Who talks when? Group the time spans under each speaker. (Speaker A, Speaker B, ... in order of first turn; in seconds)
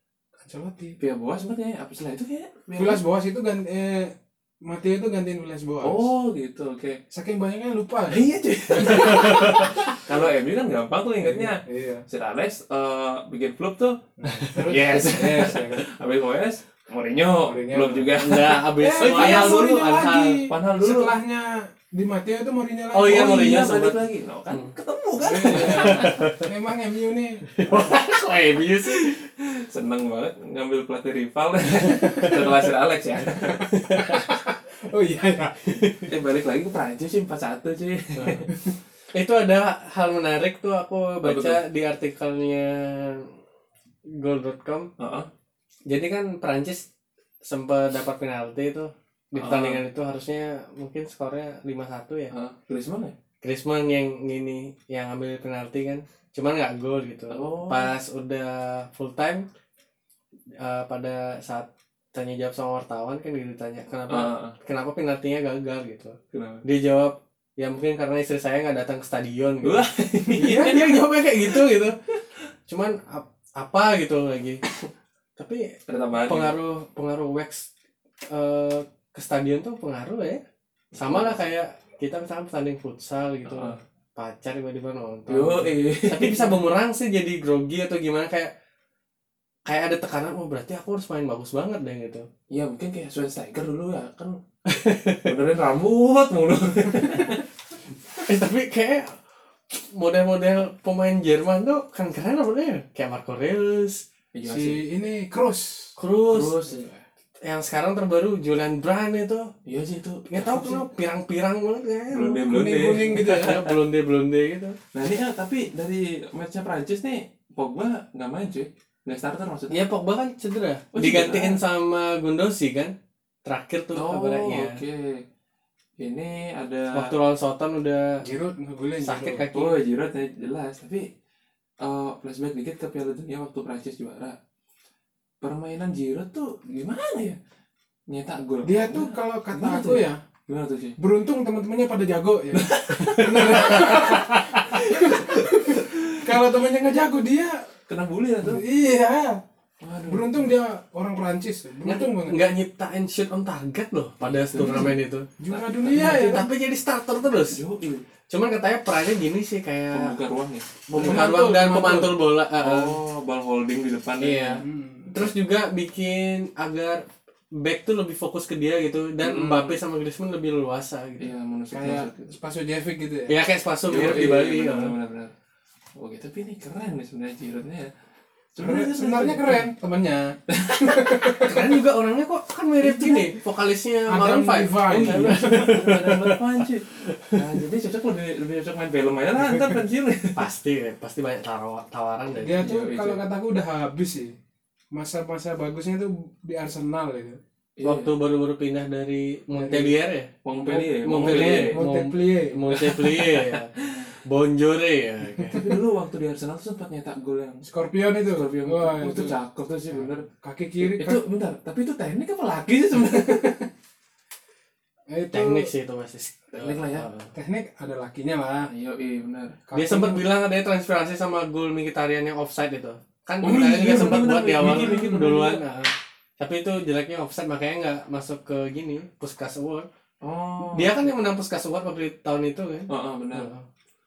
Speaker A: 0.4-1.0, 2.8-6.1, 7.1-9.8, 11.2-12.0, 14.2-15.9, 17.4-18.1, 18.8-23.5, 25.2-27.6, 33.9-35.7, 104.5-106.0, 112.5-113.6, 128.2-129.4, 138.6-140.2, 141.0-147.7, 148.4-149.4, 150.1-152.5, 154.6-156.5, 160.9-162.2, 164.6-165.2, 171.7-173.4, 178.6-181.8, 184.1-185.7, 192.4-194.3, 194.9-197.4, 199.6-200.0, 201.2-202.6, 205.4-205.7, 207.7-209.4, 210.0-211.2, 213.1-213.5, 215.1-215.7, 217.3-218.7, 219.7-220.3, 224.6-225.2
Speaker B: 1.0-3.0, 5.8-7.0, 8.1-14.0, 14.6-21.1, 23.0-26.3, 28.9-33.7, 36.1-38.5, 41.2-41.6, 45.0-45.3, 49.4-49.8, 52.3-53.1, 57.3-57.9, 64.1-64.6, 66.3-66.6, 69.6-71.8, 75.9-76.5, 81.0-81.4, 83.5-83.8, 85.3-86.6, 92.5-94.4, 95.2-97.4, 104.3-104.8, 106.3-107.0, 109.7-110.9, 112.1-113.7, 114.9-119.8, 120.9-121.6, 123.9-125.2, 126.0-127.1, 129.5-131.1, 131.8-134.4, 135.4-137.4, 138.1-141.0, 142.5-146.2, 147.9-148.6, 149.8-150.4, 154.2-155.0, 155.5-156.4, 157.5-158.1, 159.9-161.2, 162.6-164.6, 169.2-169.8, 171.2-172.4, 173.9-175.3, 176.0-177.9, 178.5-179.7, 180.5-181.1, 184.9-190.4, 192.6-193.2, 197.8-198.1, 200.4-201.8, 202.7-203.8, 205.5-207.7, 208.3-210.3, 210.8-213.7, 216.5-217.1, 218.7-219.6, 223.4-225.6, 230.2-231.1, 232.9-233.5
Speaker C: 8.8-9.9, 14.3-14.6, 18.2-20.4, 22.9-24.7, 25.4-26.5, 27.5-29.2, 32.0-32.3, 33.7-34.3, 35.6-36.1, 39.1-43.3, 44.1-44.9, 45.9-46.9, 47.4-52.3, 53.4-59.5, 60.6-72.0, 72.7-74.6, 75.4-77.7, 78.3-80.4, 81.0-88.5, 89.7-92.3, 94.7-95.3, 98.3-99.2, 99.7-104.0, 106.0-106.7, 107.4-109.5, 110.3-112.5, 113.1-114.8, 119.7-124.8, 126.9-128.2, 129.0-129.8, 143.1-144.2, 151.8-155.3, 155.9-157.6, 158.3-160.1, 160.9-163.0, 164.2-171.3, 173.3-174.9, 181.4-187.4, 190.4-192.7, 197.8-203.7, 204.2-205.7, 215.3-217.3, 219.7-229.9, 230.7-233.7